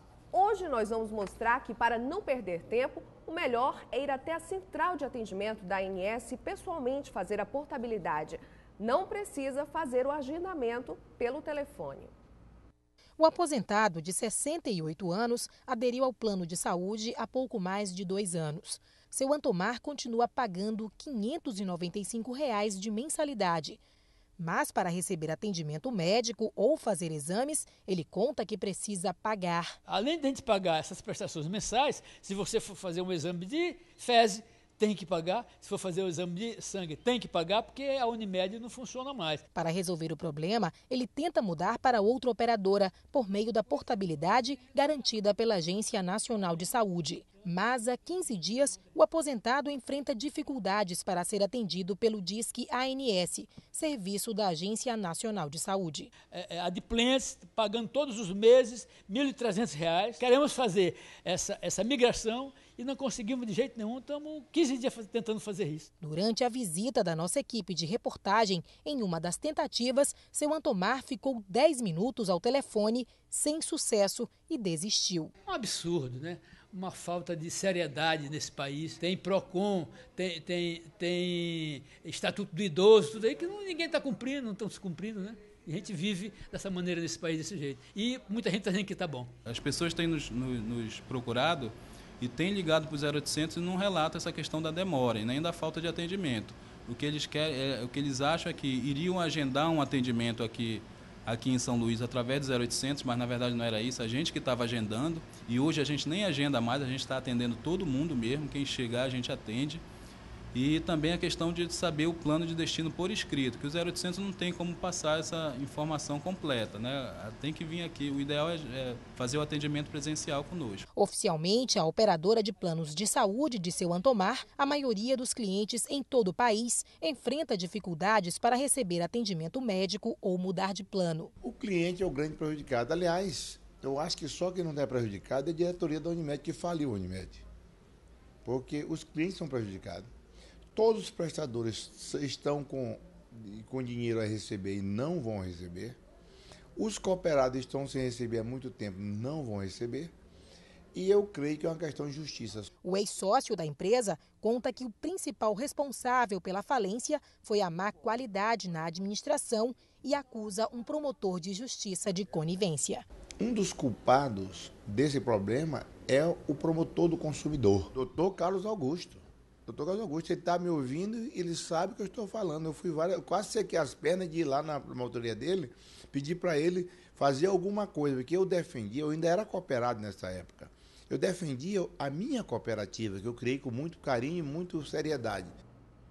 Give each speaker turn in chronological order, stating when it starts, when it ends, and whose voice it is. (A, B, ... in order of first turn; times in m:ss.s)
0:00.3-0:12.1 A
0:13.2-0:23.8 B
0:24.4-0:29.7 B
0:29.8-0:39.4 C
0:39.5-0:56.1 B
0:56.3-1:05.9 C
1:06.0-1:15.3 B
1:15.4-1:29.3 C
1:29.4-1:49.8 D
1:50.5-2:00.8 D
2:01.0-2:11.3 B
2:11.4-2:17.4 E
2:18.4-2:20.1 E
2:20.7-2:26.0 E
2:26.8-2:30.1 E
2:30.9-2:32.7 E
2:32.8-2:43.0 B
2:43.4-3:05.5 E